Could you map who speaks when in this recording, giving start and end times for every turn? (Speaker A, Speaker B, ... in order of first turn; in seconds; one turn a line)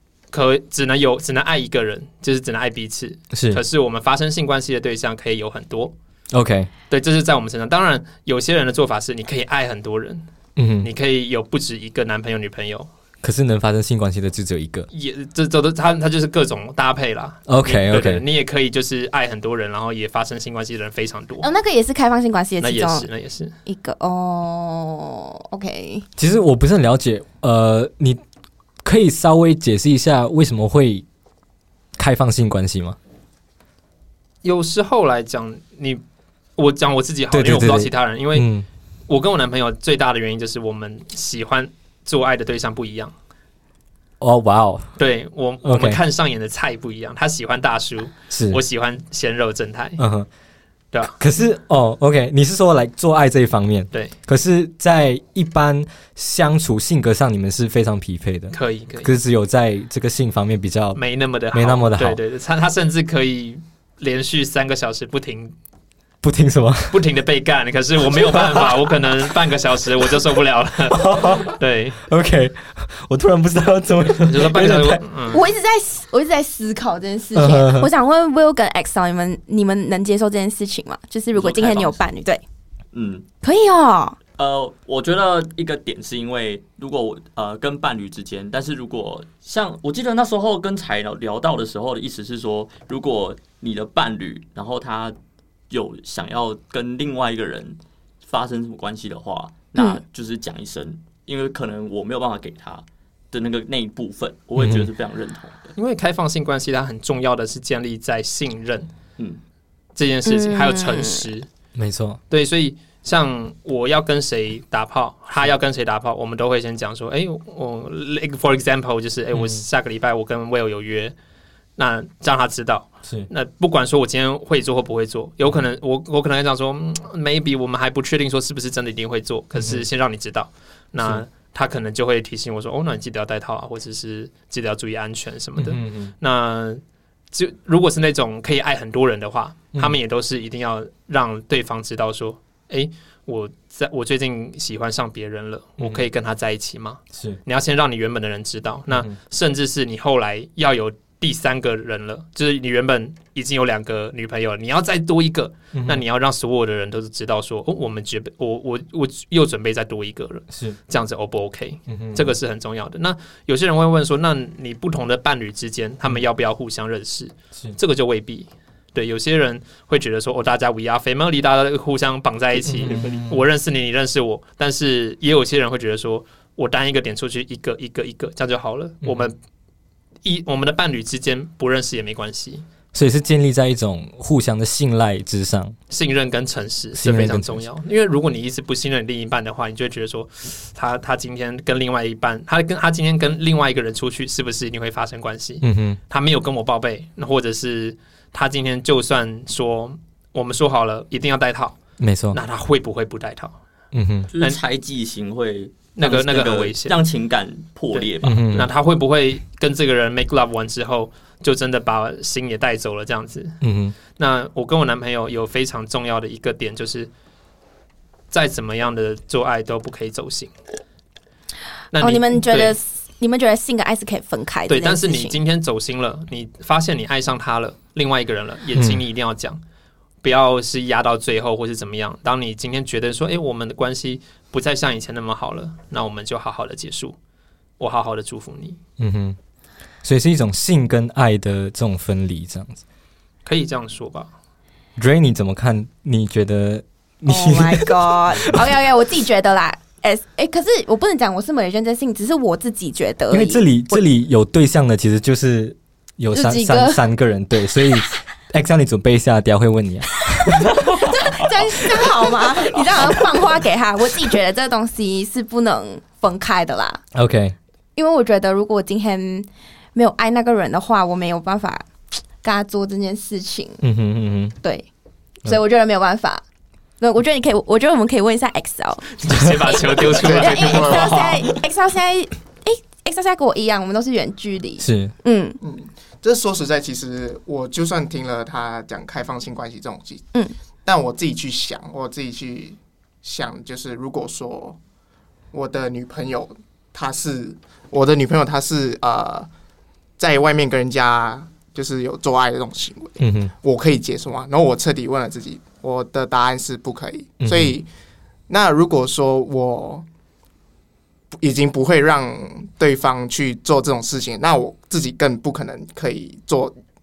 Speaker A: 0.3-5.9
Speaker B: 3.3-3.6
Speaker B: 6.3-6.7
Speaker A: 6.9-10.2
Speaker B: 10.6-10.9
Speaker A: 10.8-12.9
Speaker B: 13.2-14.9
Speaker A: 14.9-21.4
Speaker B: 17.5-18.2
Speaker C: 21.4-23.1
Speaker A: 22.6-23.5
Speaker C: 23.6-26.1
Speaker B: 26.2-28.2
Speaker B: 28.8-31.0
Speaker B: 32.0-33.0
Speaker A: 34.4-36.0
Speaker A: 36.6-38.5
Speaker B: 37.3-38.6
Speaker A: 39.1-43.1
Speaker B: 44.2-44.9
Speaker A: 45.0-50.0
Speaker B: 45.6-46.0
Speaker B: 48.3-48.6
Speaker B: 50.0-50.3
Speaker B: 51.2-61.0
Speaker A: 58.5-59.1
Speaker A: 60.9-65.5
Speaker B: 61.5-62.2
Speaker B: 66.2-67.0
Speaker A: 66.9-72.0
Speaker B: 68.2-68.7
Speaker B: 70.9-75.0
Speaker A: 74.2-75.4
Speaker C: 75.3-82.4
Speaker B: 77.3-77.9
Speaker D: 81.3-82.0
Speaker D: 82.9-83.2
Speaker C: 83.4-84.2
Speaker D: 84.3-95.2
Speaker D: 95.7-105.7
Speaker C: 99.8-100.0
Speaker B: 104.6-104.9
Speaker A: 105.8-108.9
Speaker A: 110.0-111.5
Speaker C: 110.2-111.3
Speaker B: 111.8-112.2
Speaker A: 112.3-121.1
Speaker B: 119.3-119.6
Speaker A: 121.8-136.8
Speaker B: 129.6-129.8
Speaker B: 135.6-136.1
Speaker A: 137.3-179.3
Speaker B: 148.9-149.1
Speaker B: 155.7-156.0
Speaker B: 160.5-160.8
Speaker B: 161.9-162.3
Speaker B: 172.7-173.4
Speaker A: 180.2-182.6
Speaker B: 182.9-185.8
Speaker A: 185.9-201.8
Speaker B: 186.9-187.6
Speaker B: 195.6-196.0
Speaker B: 202.0-202.4
Speaker A: 202.3-203.5
Speaker B: 203.9-204.3
Speaker D: 204.3-208.6
Speaker A: 205.9-207.0
Speaker A: 207.9-213.6
Speaker B: 208.2-208.7
Speaker B: 213.6-213.9
Speaker A: 214.2-217.1
Speaker A: 218.3-220.5
Speaker A: 221.9-222.7
Speaker C: 222.0-225.4
Speaker A: 224.7-229.6
Speaker B: 228.7-229.0
Speaker A: 230.2-237.2
Speaker A: 237.8-238.8
Speaker B: 239.0-239.4
Speaker B: 240.0-242.8
Speaker A: 243.4-244.3
Speaker B: 245.0-248.7
Speaker C: 247.3-254.0
Speaker B: 253.3-260.6
Speaker C: 256.3-257.0
Speaker C: 260.9-267.0
Speaker B: 267.1-267.5
Speaker C: 267.9-271.9
Speaker C: 272.4-273.8
Speaker B: 273.8-274.5
Speaker C: 274.6-274.9
Speaker C: 275.4-276.4
Speaker C: 277.0-285.6
Speaker A: 279.2-281.2
Speaker E: 280.1-281.3
Speaker B: 284.8-285.1
Speaker E: 285.6-290.3
Speaker E: 290.8-294.8
Speaker E: 295.5-299.5
Speaker E: 300.2-307.9
Speaker B: 303.2-303.5
Speaker B: 307.4-307.8
Speaker E: 308.5-310.0
Speaker E: 311.3-316.7